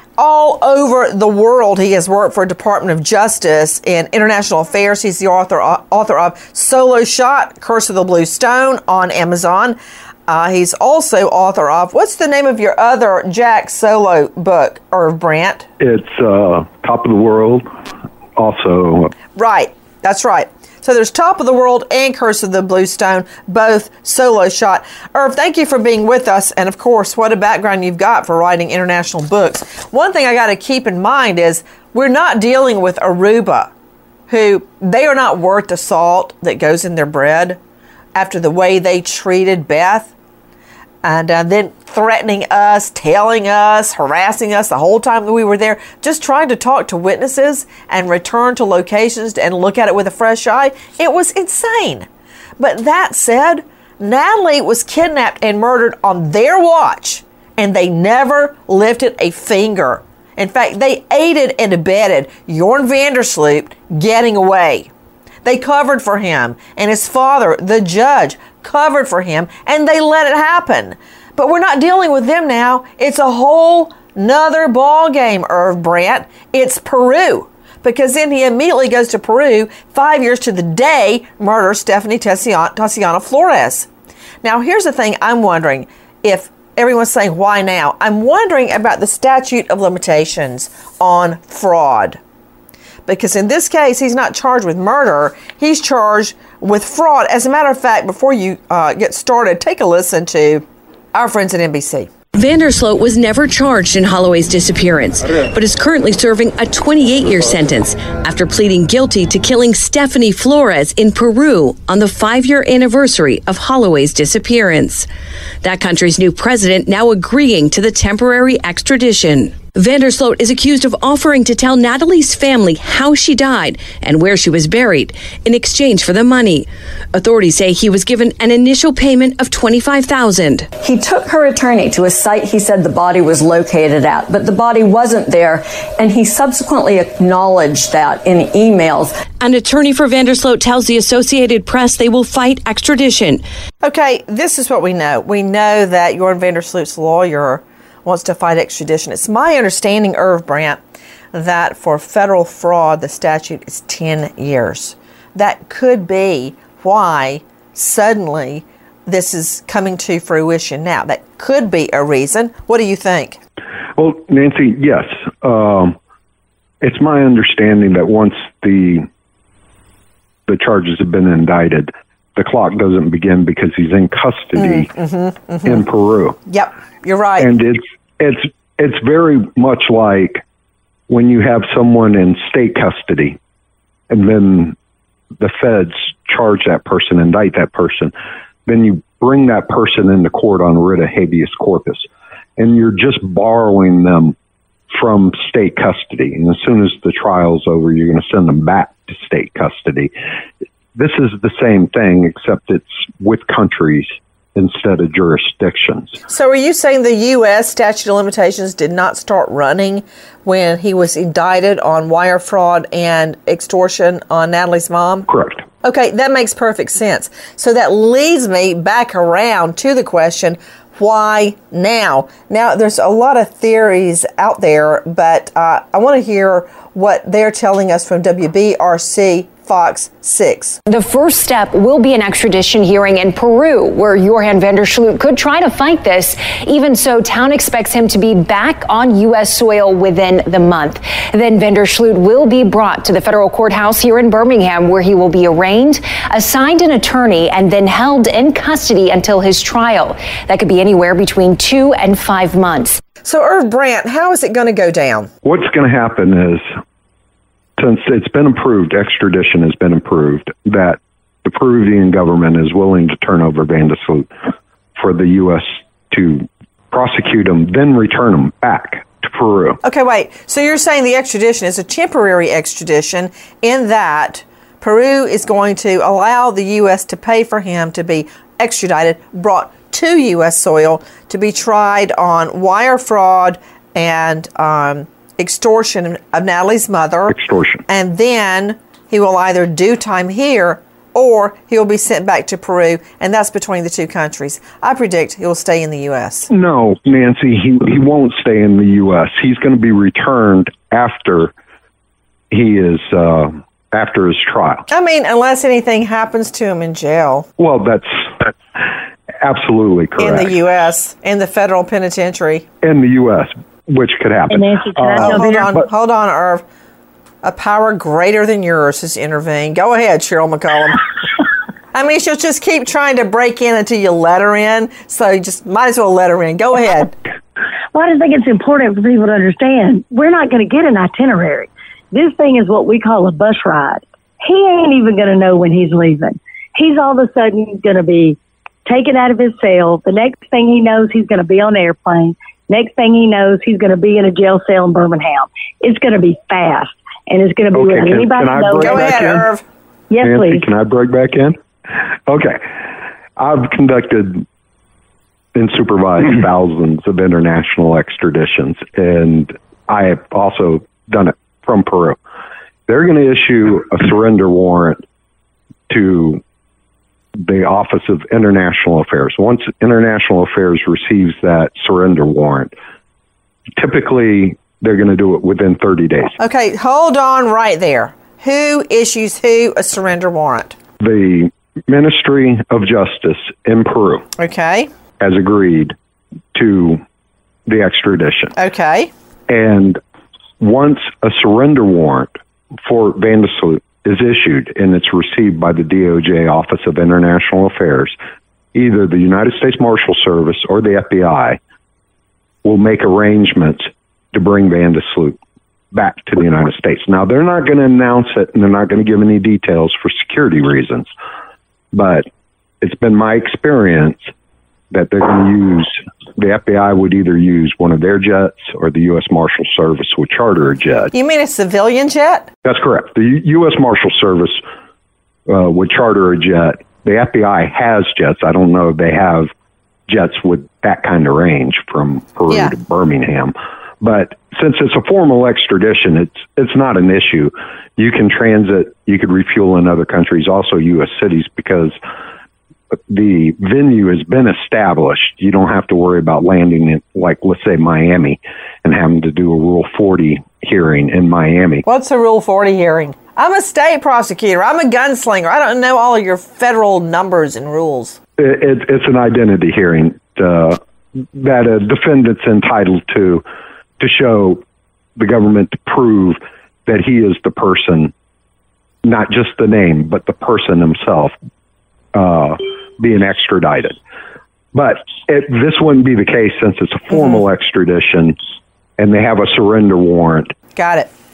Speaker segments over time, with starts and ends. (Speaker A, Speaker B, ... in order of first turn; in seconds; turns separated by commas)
Speaker A: 0.2-15.7, Speaker B: 15.8-17.7, Speaker B: 18.4-19.1, Speaker A: 19.3-33.7, Speaker A: 34.3-37.6, Speaker A: 38.1-40.1, Speaker A: 41.0-52.1, Speaker A: 52.6-64.9, Speaker A: 65.4-83.9, Speaker A: 84.4-92.2, Speaker A: 93.0-102.1, Speaker C: 102.3-115.1, Speaker C: 115.6-130.7, Speaker D: 130.8-139.2, Speaker C: 139.3-143.4, Speaker A: 143.8-150.8, Speaker A: 151.3-163.4, Speaker B: 164.0-165.9, Speaker B: 166.8-169.1, Speaker B: 170.5-174.9, Speaker A: 174.6-175.8, Speaker B: 175.6-176.4, Speaker A: 176.5-177.5, Speaker B: 177.4-180.4, Speaker B: 181.1-183.4, Speaker B: 184.1-184.8, Speaker B: 185.4-188.1, Speaker B: 188.7-192.1, Speaker B: 192.6-194.3, Speaker B: 194.9-200.1, Speaker B: 200.9-206.2, Speaker A: 206.3-215.3, Speaker B: 215.3-215.6, Speaker A: 215.8-230.8, Speaker E: 230.9-253.0, Speaker A: 253.2-255.3, Speaker B: 255.4-256.8, Speaker B: 257.8-264.3, Speaker B: 265.0-269.8, Speaker A: 269.8-287.3, Speaker B: 287.3-287.8, Speaker A: 287.9-296.5, Speaker B: 296.5-301.5, Speaker B: 302.5-304.8, Speaker A: 304.9-307.5, Speaker B: 307.6-308.9, Speaker B: 309.4-310.5, Speaker A: 310.2-312.6, Speaker B: 312.8-315.8, Speaker F: 314.5-315.8, Speaker A: 315.2-316.6, Speaker A: 317.4-321.1, Speaker A: 321.9-327.1, Speaker F: 327.9-349.2, Speaker B: 347.7-349.5, Speaker A: 348.8-349.6, Speaker F: 350.1-350.6, Speaker B: 350.2-352.6, Speaker B: 353.4-354.4, Speaker B: 355.5-362.2, Speaker B: 362.9-365.0, Speaker B: 365.9-366.4, Speaker B: 367.4-372.7, Speaker B: 373.8-376.4, Speaker A: 376.4-380.8, Speaker B: 381.0-384.2, Speaker A: 384.4-384.9, Speaker B: 385.2-385.9, Speaker B: 386.5-387.0, Speaker B: 387.7-388.5, Speaker A: 388.6-389.1, Speaker B: 389.5-390.0, Speaker B: 390.6-398.1, Speaker B: 398.7-401.6, Speaker B: 402.6-405.4, Speaker B: 405.9-411.1, Speaker B: 411.9-412.3, Speaker B: 412.8-414.3, Speaker B: 414.9-421.1, Speaker A: 421.1-422.5, Speaker B: 422.6-424.6, Speaker B: 425.5-429.5, Speaker B: 430.1-442.0, Speaker B: 442.9-451.8, Speaker A: 451.9-458.2, Speaker B: 458.4-463.4, Speaker B: 464.0-464.6, Speaker B: 465.2-468.1, Speaker B: 469.0-471.3, Speaker B: 472.1-474.0, Speaker B: 474.7-478.4, Speaker B: 479.0-480.5, Speaker A: 480.8-481.1